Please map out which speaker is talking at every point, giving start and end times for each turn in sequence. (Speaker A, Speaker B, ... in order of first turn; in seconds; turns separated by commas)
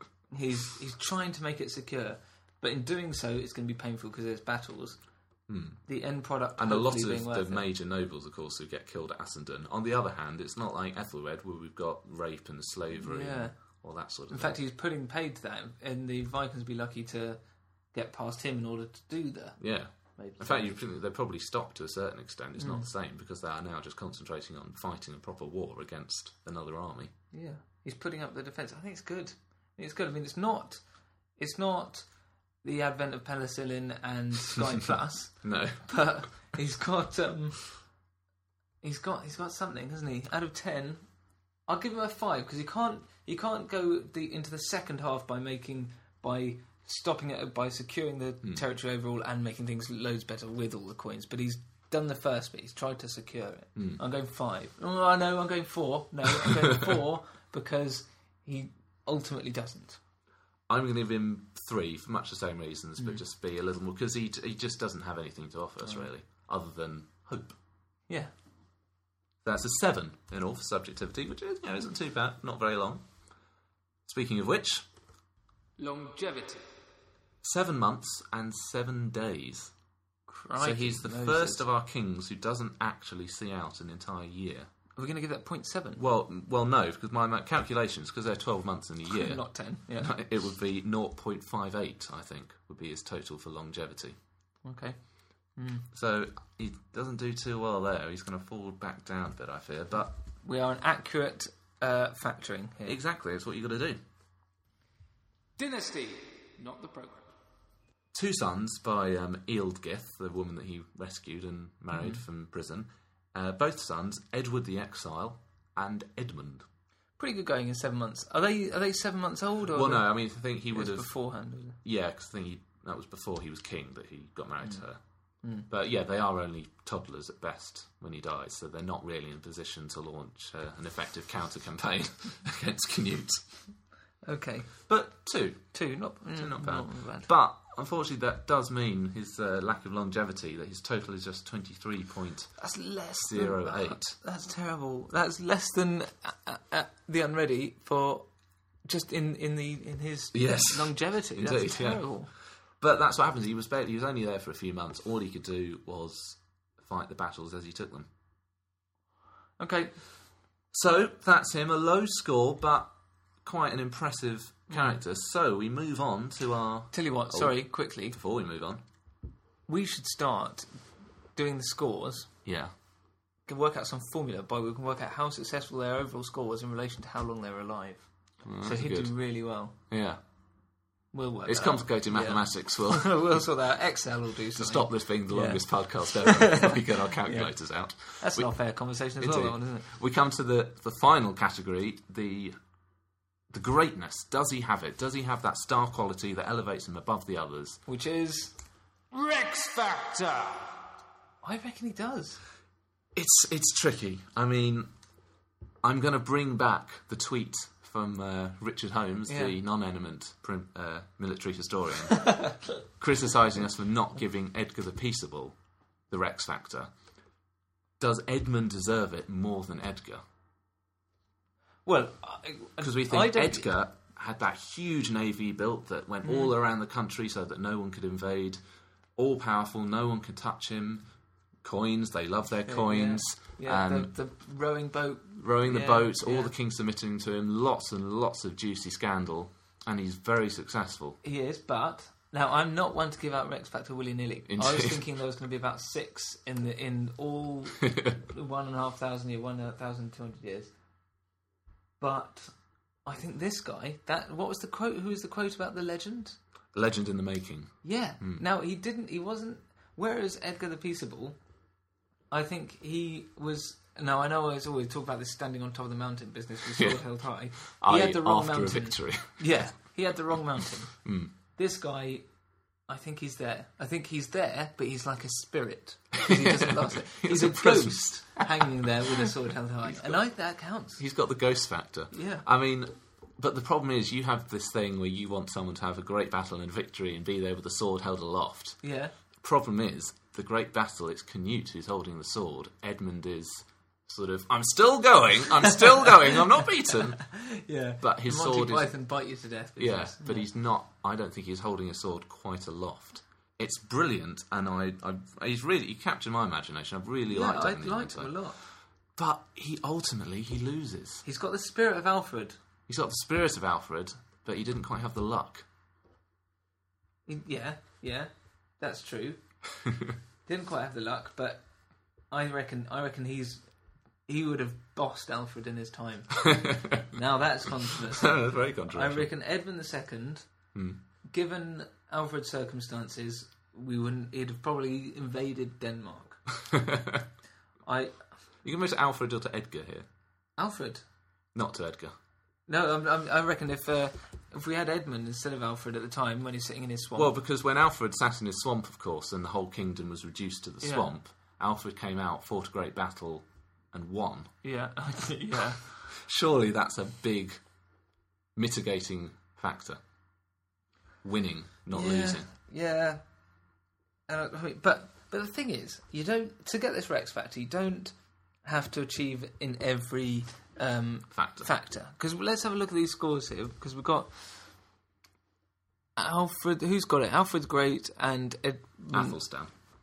Speaker A: 0.3-5.0, Speaker B: 5.5-5.8, Speaker A: 5.9-7.6, Speaker B: 6.6-14.5, Speaker A: 13.0-13.5, Speaker A: 14.3-17.4, Speaker A: 17.9-19.6, Speaker B: 19.6-27.1, Speaker A: 20.1-20.7, Speaker A: 22.6-22.9, Speaker A: 27.3-30.8, Speaker A: 31.4-32.1, Speaker A: 32.6-37.7, Speaker B: 35.4-36.0, Speaker A: 38.8-41.0, Speaker A: 41.7-60.0, Speaker B: 60.7-67.5, Speaker B: 69.4-73.0, Speaker B: 74.0-74.8, Speaker A: 75.8-76.5, Speaker C: 75.8-76.5, Speaker B: 77.4-79.7, Speaker A: 80.3-81.6, Speaker B: 80.5-84.7, Speaker A: 85.0-86.0, Speaker B: 86.0-94.2, Speaker A: 89.2-90.1, Speaker A: 94.6-95.0, Speaker A: 95.5-95.9, Speaker B: 95.9-100.1, Speaker A: 100.4-103.0, Speaker B: 102.8-104.0, Speaker C: 105.6-107.3, Speaker B: 108.1-116.7, Speaker A: 111.9-112.2, Speaker A: 117.2-120.1, Speaker B: 119.7-121.1, Speaker A: 120.7-121.8, Speaker B: 121.8-125.0, Speaker B: 125.7-133.4, Speaker A: 134.2-134.9, Speaker B: 134.8-142.6, Speaker A: 135.7-137.3, Speaker A: 142.6-148.3, Speaker B: 143.2-144.2, Speaker A: 148.8-152.3, Speaker B: 150.3-152.1, Speaker B: 152.8-158.1, Speaker A: 159.6-160.0, Speaker B: 160.7-162.9, Speaker B: 163.4-168.8, Speaker A: 166.9-168.2, Speaker A: 169.7-170.8, Speaker A: 171.3-172.3, Speaker B: 172.4-172.7, Speaker A: 173.5-178.1, Speaker B: 178.4-179.1, Speaker A: 178.6-179.7, Speaker B: 179.9-180.2, Speaker A: 181.1-185.6, Speaker B: 181.4-183.4, Speaker B: 184.6-188.5, Speaker A: 186.2-187.5, Speaker A: 188.2-189.8, Speaker B: 189.2-192.6, Speaker B: 193.5-197.8, Speaker A: 197.8-198.5, Speaker C: 199.1-200.8, Speaker A: 201.4-202.4, Speaker B: 203.1-204.9, Speaker B: 205.8-215.6, Speaker A: 209.3-209.5, Speaker A: 212.2-212.6, Speaker B: 216.1-216.9, Speaker B: 218.0-220.2, Speaker A: 221.8-223.7, Speaker B: 222.8-228.6, Speaker A: 226.2-226.5, Speaker B: 229.2-231.0, Speaker B: 231.6-234.1, Speaker A: 232.7-236.5, Speaker B: 235.4-241.2, Speaker A: 241.2-250.7, Speaker B: 244.5-245.0, Speaker A: 252.0-252.5, Speaker A: 253.0-256.4, Speaker B: 256.7-258.4, Speaker A: 257.8-261.4, Speaker A: 262.3-271.0, Speaker B: 266.7-267.0, Speaker B: 267.6-269.7, Speaker B: 271.0-271.3, Speaker A: 271.6-272.2, Speaker A: 272.9-281.0, Speaker B: 276.2-278.7, Speaker B: 279.8-280.2, Speaker B: 281.0-288.8, Speaker A: 282.1-282.4, Speaker A: 288.8-289.1, Speaker B: 289.4-297.3, Speaker A: 297.2-300.5, Speaker B: 298.0-299.0, Speaker B: 299.8-311.2, Speaker A: 307.3-308.6, Speaker A: 311.2-312.6, Speaker B: 312.9-315.6, Speaker A: 317.2-319.4, Speaker A: 320.4-321.6, Speaker A: 322.3-323.6, Speaker A: 324.3-330.5, Speaker B: 326.4-327.1, Speaker B: 328.2-329.3, Speaker B: 330.7-331.0, Speaker A: 331.3-336.4, Speaker B: 336.6-337.2, Speaker A: 337.9-338.2, Speaker B: 338.6-340.1, Speaker A: 340.6-341.0, Speaker B: 341.5-342.1, Speaker A: 342.7-347.3, Speaker B: 347.2-354.5, Speaker A: 350.8-351.1, Speaker A: 354.6-355.9, Speaker B: 356.1-357.6, Speaker B: 358.6-360.0, Speaker B: 361.2-362.5, Speaker A: 361.9-363.2, Speaker A: 364.3-374.7, Speaker B: 371.3-371.7, Speaker A: 376.1-379.4, Speaker B: 379.1-379.7